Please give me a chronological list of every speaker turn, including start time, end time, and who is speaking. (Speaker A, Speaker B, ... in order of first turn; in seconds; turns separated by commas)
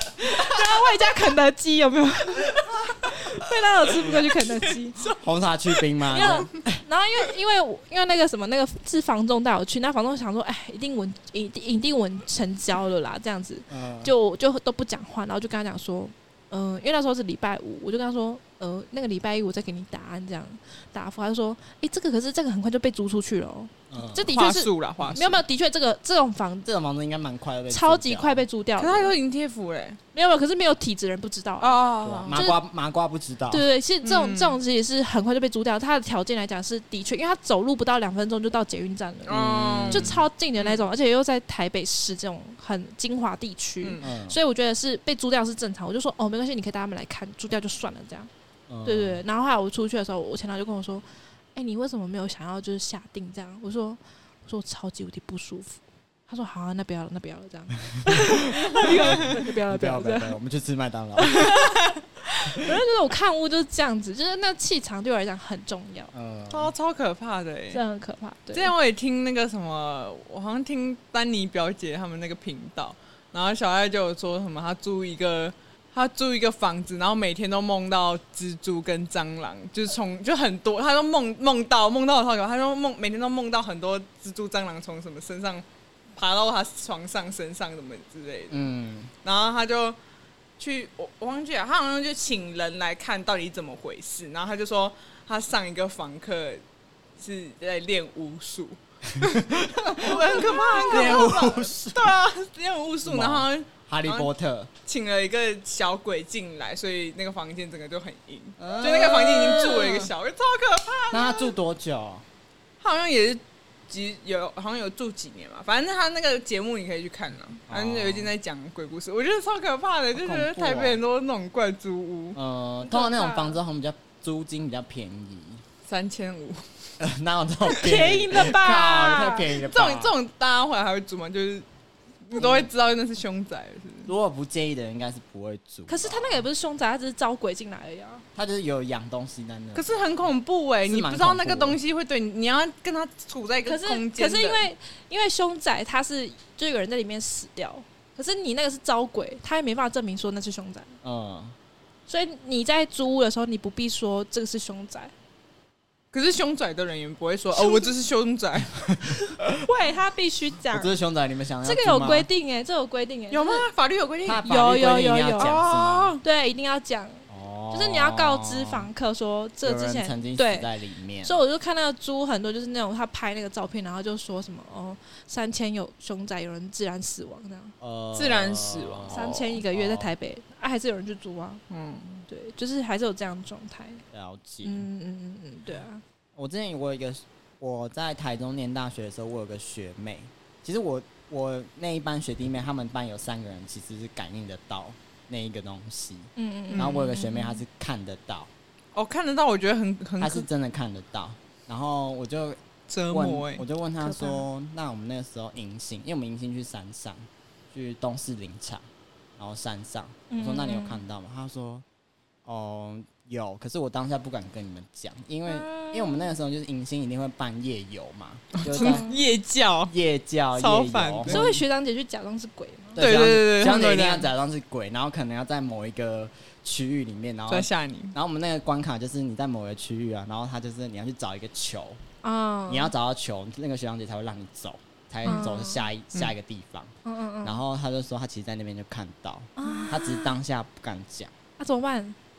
Speaker A: 0.2-5.1, Speaker B: 4.1-6.5, Speaker C: 5.2-6.8, Speaker A: 6.1-26.7, Speaker C: 13.7-14.1, Speaker C: 23.9-24.3, Speaker B: 24.3-25.4, Speaker C: 26.6-28.4, Speaker A: 27.7-29.1, Speaker B: 28.8-30.0, Speaker A: 30.1-32.6, Speaker B: 31.6-32.4, Speaker C: 32.0-33.7, Speaker A: 33.5-48.3, Speaker B: 34.0-34.6, Speaker B: 39.3-40.8, Speaker C: 39.3-40.2, Speaker C: 44.0-44.4, Speaker C: 48.7-49.2, Speaker A: 48.9-60.4, Speaker C: 58.1-61.5, Speaker A: 61.2-66.1, Speaker C: 66.1-66.7, Speaker B: 66.5-67.8, Speaker A: 67.7-68.7, Speaker B: 68.5-88.7, Speaker C: 88.5-89.1, Speaker B: 89.2-90.0, Speaker B: 90.6-96.6, Speaker B: 97.2-99.4, Speaker C: 99.2-102.2, Speaker B: 100.0-104.3, Speaker A: 100.0-101.4, Speaker C: 103.0-104.7, Speaker B: 104.8-111.5, Speaker C: 108.6-110.1, Speaker C: 111.1-112.2, Speaker B: 112.8-122.4, Speaker C: 117.7-118.3, Speaker C: 120.2-121.0, Speaker C: 122.3-125.6, Speaker A: 122.8-123.6, Speaker B: 125.9-126.7, Speaker C: 127.0-130.2, Speaker A: 127.7-129.5, Speaker B: 129.6-131.7, Speaker B: 132.2-134.1, Speaker C: 132.3-132.7, Speaker C: 134.1-136.4, Speaker A: 135.9-138.2, Speaker C: 138.3-140.1, Speaker B: 139.8-144.6, Speaker C: 140.9-141.8, Speaker A: 143.7-150.9, Speaker C: 151.0-151.6, Speaker A: 152.1-155.1, Speaker B: 156.1-158.9, Speaker A: 157.5-157.9, Speaker A: 159.4-160.9, Speaker C: 160.7-162.3, Speaker A: 161.6-163.7, Speaker B: 163.3-164.5, Speaker C: 164.2-166.2, Speaker A: 164.4-165.6, Speaker B: 165.4-166.2, Speaker A: 166.2-170.7, Speaker C: 167.3-168.9, Speaker C: 169.6-171.4, Speaker A: 171.2-177.7, Speaker C: 177.8-180.1, Speaker B: 178.1-179.6, Speaker A: 179.1-181.6, Speaker B: 181.7-182.2, Speaker A: 182.3-184.0, Speaker C: 184.1-184.9, Speaker A: 184.6-186.0, Speaker C: 186.4-198.5, Speaker A: 196.4-197.6, Speaker B: 196.7-197.1, Speaker B: 198.9-200.5, Speaker C: 200.2-208.8, Speaker B: 202.9-203.7, Speaker A: 204.0-204.4, Speaker C: 209.4-211.8, Speaker A: 210.3-211.0, Speaker C: 212.5-219.1, Speaker A: 215.5-216.0, Speaker B: 218.6-219.9, Speaker A: 218.7-219.2, Speaker C: 219.9-221.4, Speaker B: 220.6-221.6, Speaker A: 221.3-223.0, Speaker C: 223.0-232.0, Speaker B: 223.0-224.3, Speaker B: 227.5-228.1, Speaker A: 232.2-232.9, Speaker C: 232.7-241.3, Speaker A: 235.3-235.8, Speaker A: 237.1-237.6, Speaker A: 239.6-240.3, Speaker A: 241.6-242.2